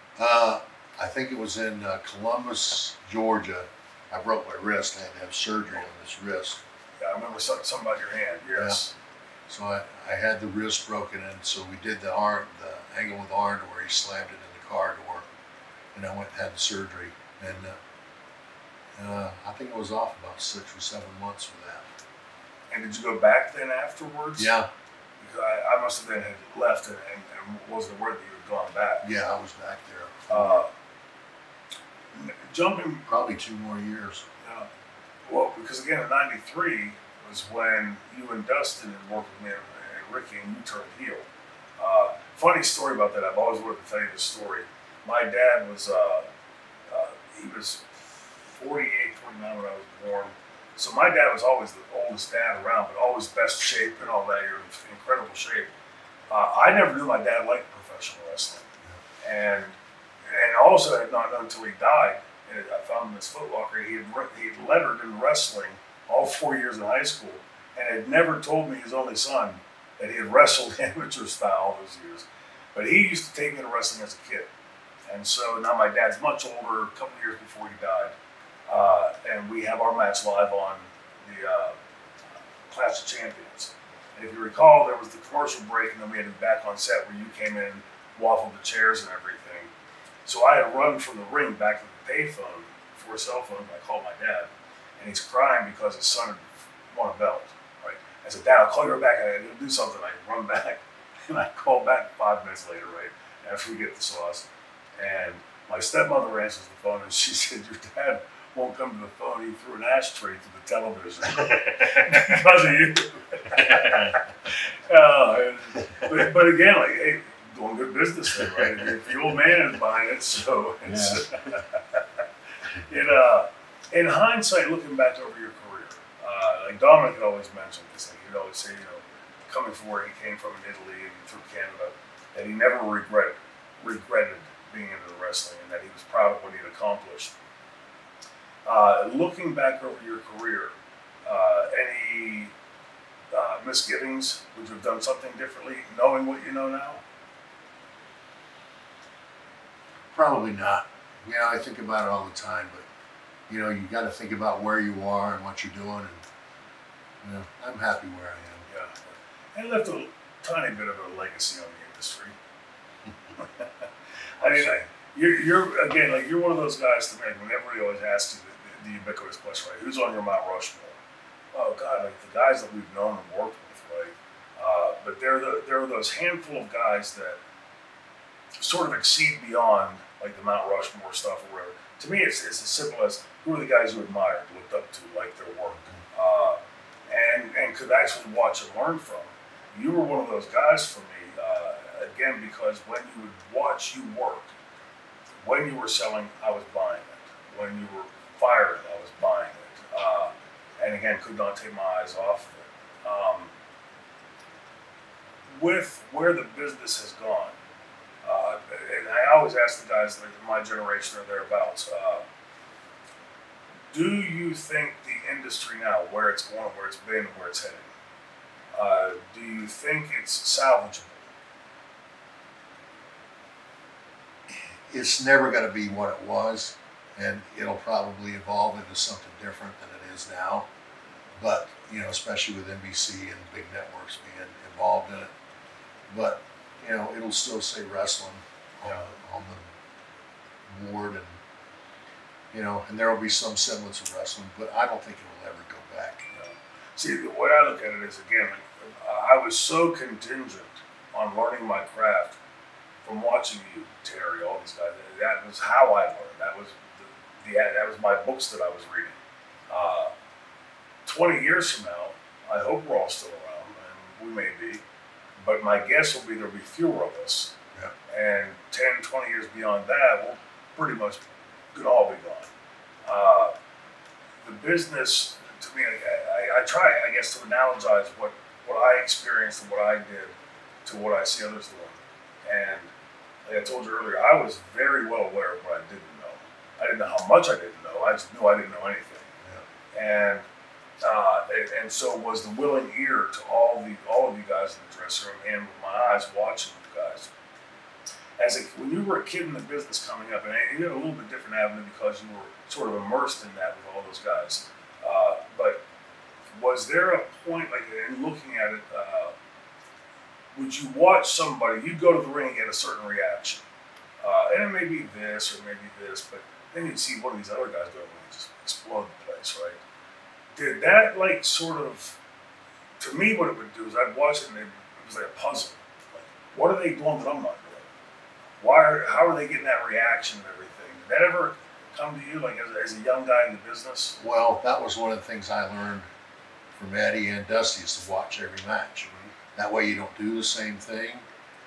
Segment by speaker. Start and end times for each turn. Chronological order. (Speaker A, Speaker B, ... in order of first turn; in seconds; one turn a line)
Speaker A: 0.2-6.6
Speaker B: 7.0-8.9
Speaker A: 9.5-15.3
Speaker A: 15.9-17.8
Speaker A: 18.9-21.9
Speaker B: 22.7-24.5
Speaker A: 24.4-24.7
Speaker B: 25.2-29.1
Speaker A: 29.0-30.6
Speaker B: 30.3-30.7
Speaker B: 32.1-33.1
Speaker A: 33.1-34.3
Speaker B: 34.4-34.7
Speaker B: 35.3-41.3
Speaker B: 41.8-46.3
Speaker B: 46.9-48.0
Speaker B: 48.5-55.7
Speaker B: 56.3-58.7
Speaker B: 59.2-74.5
Speaker B: 75.1-78.2
Speaker B: 78.7-81.8
Speaker B: 82.7-89.7
Speaker B: 90.3-104.5
Speaker B: 105.0-122.1
Speaker A: 111.4-112.2
Speaker A: 113.5-114.2
Speaker A: 118.4-118.9
Speaker A: 120.8-121.2
Speaker B: 122.7-137.3
Speaker B: 138.7-140.7
Speaker B: 141.3-142.5
Speaker B: 143.3-147.0
Speaker A: 150.1-152.9
Speaker A: 153.5-156.2
Speaker A: 157.2-158.6
Speaker B: 158.7-162.3
Speaker B: 163.4-163.8
Speaker B: 164.4-171.0
Speaker A: 164.4-164.8
Speaker B: 171.5-177.4
Speaker B: 178.6-186.6
Speaker B: 187.1-194.5
Speaker B: 195.4-203.5
Speaker B: 205.5-207.6
Speaker B: 208.2-212.2
Speaker B: 213.9-217.9
Speaker B: 218.7-221.3
Speaker A: 224.5-230.7
Speaker A: 231.4-235.3
Speaker A: 236.1-239.7
Speaker A: 240.7-241.4
Speaker A: 242.5-246.3
Speaker B: 246.3-252.4
Speaker B: 253.0-259.2
Speaker B: 259.7-260.1
Speaker B: 261.1-264.8
Speaker B: 265.4-267.5
Speaker B: 268.1-271.2
Speaker B: 271.7-272.5
Speaker B: 273.1-273.5
Speaker B: 274.4-282.9
Speaker B: 283.4-289.3
Speaker B: 289.9-290.4
Speaker B: 291.0-297.3
Speaker B: 298.4-305.8
Speaker B: 306.5-309.4
Speaker B: 310.6-313.6
Speaker B: 314.2-319.8
Speaker B: 320.6-322.2
Speaker B: 323.0-327.9
Speaker B: 328.6-334.2
Speaker A: 334.2-336.1
Speaker A: 336.7-341.2
Speaker B: 339.0-339.3